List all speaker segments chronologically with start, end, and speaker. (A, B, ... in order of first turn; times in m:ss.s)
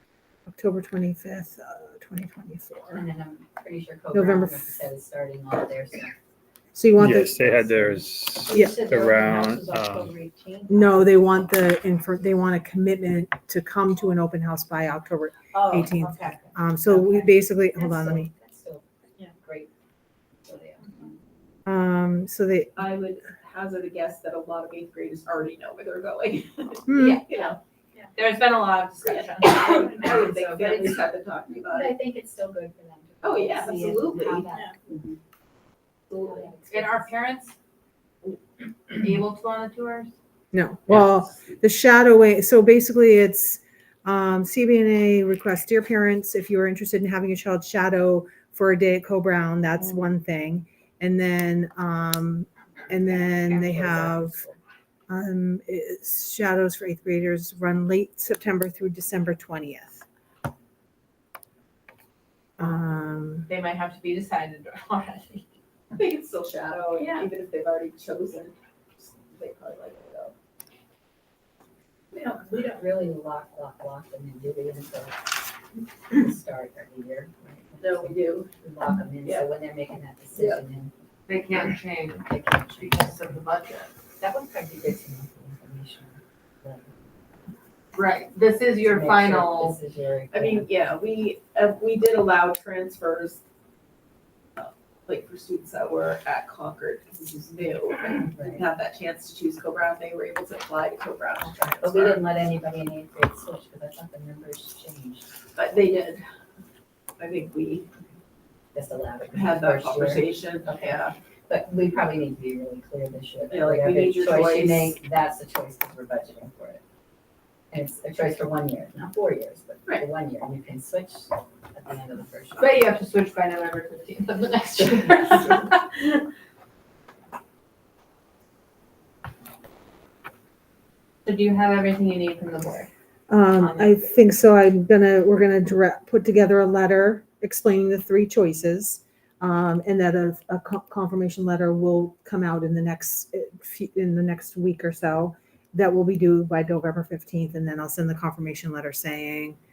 0:00.5-0:03.0 A
0:02.9-0:06.1 B
0:04.1-0:04.7 A
0:06.7-0:07.4 A
0:07.0-0:10.1 C
0:07.4-0:07.8 B
0:08.4-0:11.4 B
0:08.5-0:08.8 A
0:10.7-0:18.3 A
0:15.5-0:18.8 B
0:19.4-0:19.7 B
0:20.4-0:21.2 B
0:21.6-0:22.7 A
0:22.8-0:27.6 D
0:26.9-0:27.2 A
0:27.0-0:27.5 B
0:28.1-0:30.2 E
0:29.0-0:32.0 D
0:29.4-0:31.0 B
0:31.6-0:35.2 B
0:33.2-0:34.6 D
0:36.1-0:37.1 B
0:36.7-0:37.5 E
0:38.9-0:40.1 E
0:40.5-0:54.4 A
0:53.0-0:54.6 B
0:55.1-1:00.0 A
1:02.6-1:03.5 A
1:03.5-1:05.5 E
1:06.0-1:10.3 D
1:06.7-1:07.2 E
1:12.1-1:15.4 B
1:16.1-1:20.9 B
1:17.8-1:18.5 D
1:19.2-1:19.5 D
1:20.4-1:20.6 D
1:21.3-1:23.9 E
1:22.2-1:23.3 B
1:24.2-1:26.9 B
1:27.9-1:29.8 E
1:28.8-1:30.7 B
1:30.3-1:33.4 D
1:34.6-1:42.1 D
1:38.3-1:38.6 B
1:41.6-1:45.3 B
1:45.5-1:46.2 D
1:47.2-1:47.9 D
1:48.7-1:56.8 B
1:49.3-1:51.2 D
1:53.5-1:55.0 D
1:57.7-2:02.8 B
2:02.6-2:06.2 E
2:04.8-2:05.6 B
2:11.2-2:12.9 E
2:13.3-2:29.6 A
2:13.6-2:13.9 E